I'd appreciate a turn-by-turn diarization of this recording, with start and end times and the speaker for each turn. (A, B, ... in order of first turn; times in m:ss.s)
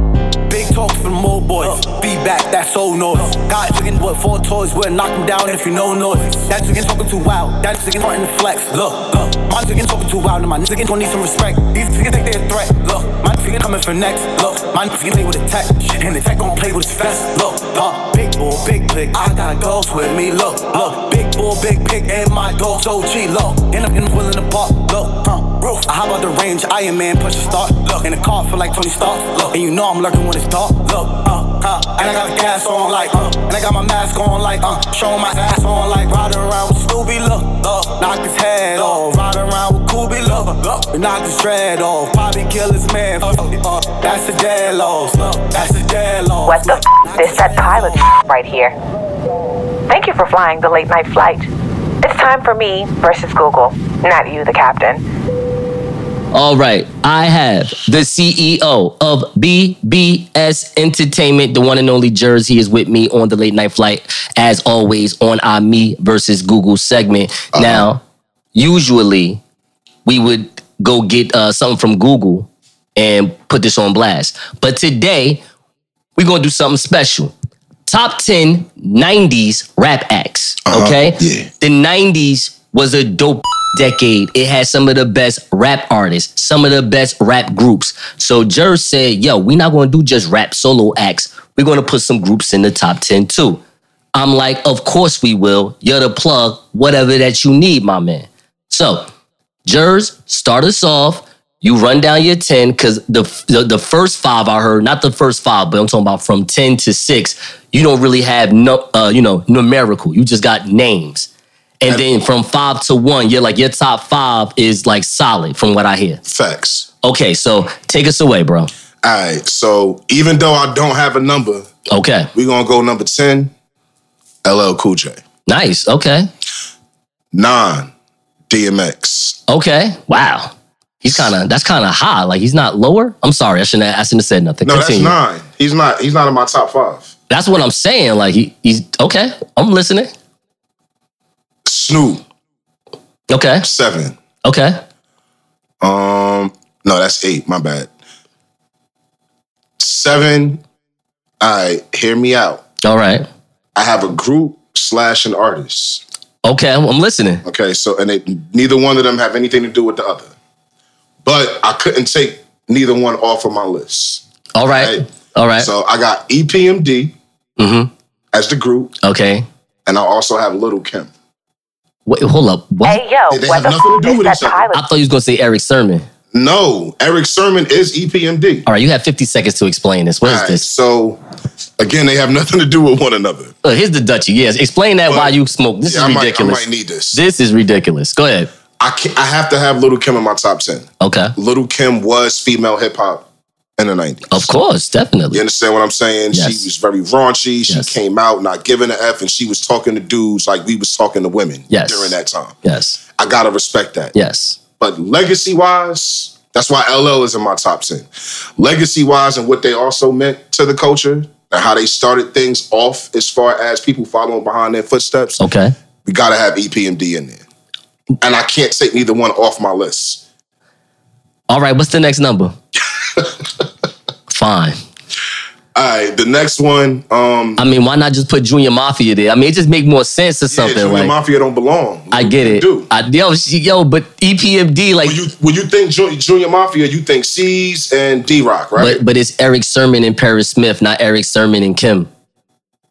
0:00.5-0:48.1 A
0:46.4-0:48.8 B
0:49.9-0:51.5 B
0:52.0-0:55.0 B
0:56.3-1:08.0 C
1:07.5-1:07.9 D
1:08.6-1:09.4 C
1:10.1-1:15.4 C
1:16.2-1:17.3 C
1:17.9-1:33.6 C
1:20.7-1:21.5 D
1:34.2-1:39.1 C
1:39.7-1:51.3 C
1:51.8-1:56.2 C
1:56.3-1:56.9 D
1:57.0-1:58.7 C
1:59.0-2:01.7 D
2:01.9-2:02.3 C
2:02.3-2:03.5 D
2:04.4-2:05.2 D
2:05.5-2:06.3 C
2:07.3-2:07.9 D
2:08.5-2:09.4 D
2:09.5-2:15.2 C
2:14.6-2:17.1 D
2:17.3-2:20.1 C
2:21.6-2:22.2 D
2:23.3-2:23.7 C
2:23.6-2:24.2 D
2:24.4-2:24.8 C
2:25.8-2:27.9 D
2:29.8-2:30.6 D
2:31.4-2:32.6 D
2:32.8-2:33.3 C
2:33.8-2:36.0 D
2:36.4-2:37.4 C
2:37.4-2:40.3 D
2:41.2-2:45.0 D
2:44.6-2:45.7 C
2:45.6-2:47.2 D
2:47.6-2:47.9 C
2:48.3-2:49.0 D
2:49.0-2:49.5 C
2:49.9-2:51.1 D
2:52.1-2:53.0 C
2:52.8-2:54.8 B
2:53.3-2:54.6 D
2:54.7-2:56.1 C
2:56.3-2:58.6 D
2:58.7-3:00.7 C
3:00.2-3:01.2 D
3:01.8-3:03.5 D
3:03.6-3:08.5 C
3:05.1-3:07.2 D
3:08.8-3:13.3 D
3:11.0-3:11.4 C
3:13.8-3:14.5 D
3:14.3-3:15.4 C
3:15.3-3:22.6 D
3:16.3-3:16.7 C
3:17.7-3:18.0 C
3:21.7-3:23.0 C
3:23.2-3:24.1 D
3:24.1-3:24.6 C
3:24.8-3:35.4 D
3:35.4-3:35.7 C
3:36.0-3:37.4 D
3:38.2-3:40.2 D
3:41.5-3:42.6 C
3:44.3-3:44.8 C
3:45.8-3:47.6 D
3:47.6-3:51.1 C
3:50.5-3:52.9 D
3:52.1-3:55.2 C
3:55.0-3:59.0 D
3:58.8-4:02.1 C